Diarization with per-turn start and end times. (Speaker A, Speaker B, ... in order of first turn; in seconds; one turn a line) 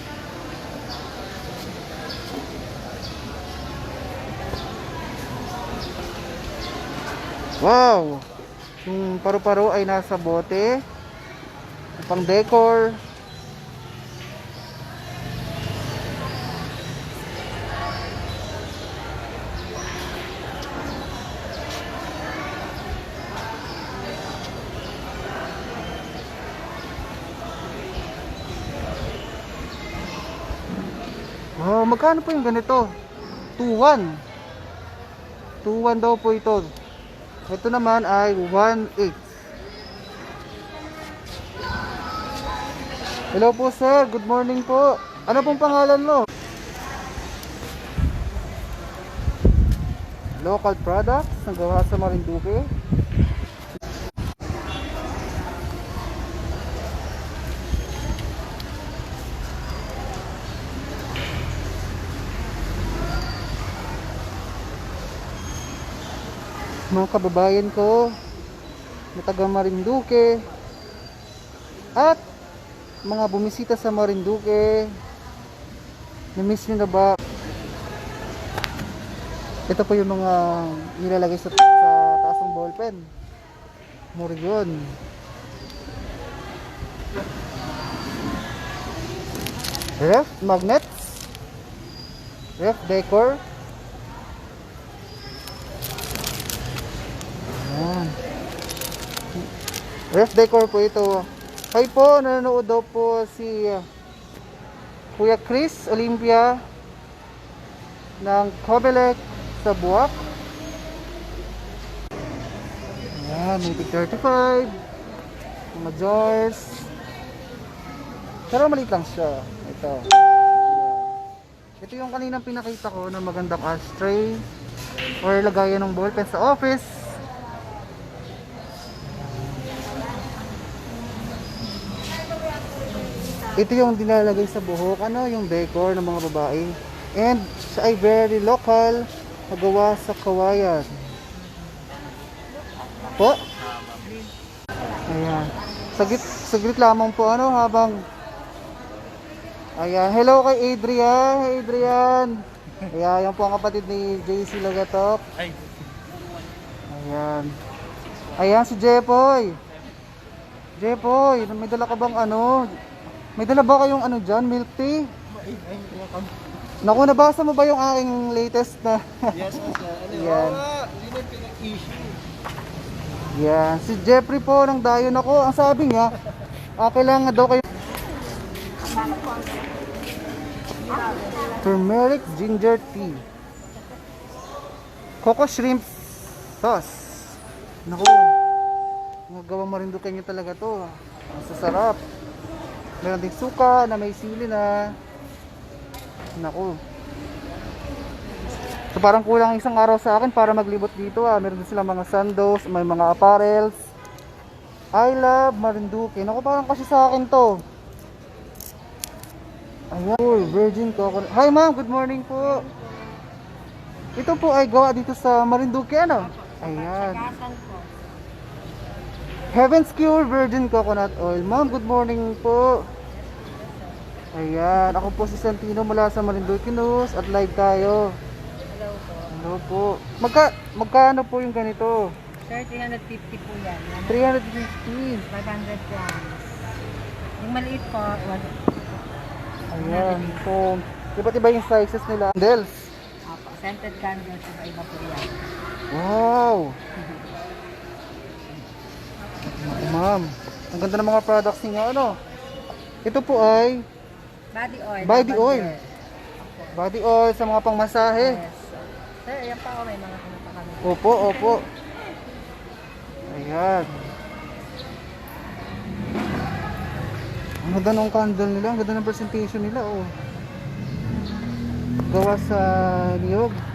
Speaker A: 7.6-8.3
Speaker A: 8.8-10.8
Speaker A: 12.0-13.0
Speaker A: 31.6-32.9
Speaker A: 33.6-34.1
Speaker A: 35.6-36.7
Speaker A: 37.5-39.3
Speaker A: 43.3-46.2
Speaker A: 50.4-52.7
Speaker A: 66.9-68.1
Speaker A: 69.2-70.4
Speaker A: 72.0-72.2
Speaker A: 73.0-74.9
Speaker A: 76.3-77.1
Speaker A: 79.7-83.0
Speaker A: 84.1-84.9
Speaker A: 90.0-91.2
Speaker A: 92.6-93.4
Speaker A: 97.5-98.1
Speaker A: 100.1-103.8
Speaker A: 105.1-106.6
Speaker A: 108.2-110.2
Speaker A: 113.2-114.7
Speaker A: 115.7-116.9
Speaker A: 118.5-120.0
Speaker A: 120.6-121.1
Speaker A: 121.8-124.4
Speaker A: 125.2-127.1
Speaker A: 133.6-141.0
Speaker B: 141.5-141.8
Speaker A: 143.2-143.4
Speaker B: 144.0-144.3
Speaker A: 145.1-148.0
Speaker A: 149.8-152.3
Speaker A: 152.9-155.2
Speaker A: 156.9-157.5
Speaker A: 158.4-159.5
Speaker A: 160.8-162.7
Speaker A: 163.4-165.1
Speaker C: 165.5-166.2
Speaker A: 166.8-170.7
Speaker C: 170.8-172.1
Speaker A: 173.4-176.1
Speaker A: 176.8-177.6
Speaker B: 178.9-179.4
Speaker B: 180.9-181.6
Speaker A: 181.6-183.2
Speaker A: 185.2-188.3
Speaker A: 189.3-192.0
Speaker A: 193.0-194.9
Speaker A: 196.4-196.8
Speaker A: 198.9-203.8
Speaker A: 204.9-207.6
Speaker A: 209.9-212.6
Speaker A: 214.2-217.3
Speaker B: 216.2-217.9
Speaker A: 219.5-222.8
Speaker B: 223.1-224.0
Speaker A: 224.3-228.1
Speaker B: 228.7-229.4
Speaker A: 229.3-232.1
Speaker B: 232.4-234.3
Speaker A: 234.1-235.3
Speaker B: 235.3-236.6
Speaker B: 237.4-238.7
Speaker A: 239.7-242.9
Speaker B: 239.7-240.4
Speaker B: 243.2-245.5
Speaker A: 245.9-246.8
Speaker A: 249.6-252.2
Speaker A: 253.0-253.8
Speaker B: 254.5-256.8
Speaker A: 255.0-255.7
Speaker A: 256.7-258.4
Speaker B: 258.2-261.7
Speaker A: 260.8-261.6
Speaker A: 263.3-264.0
Speaker A: 267.6-270.1
Speaker A: 272.1-273.6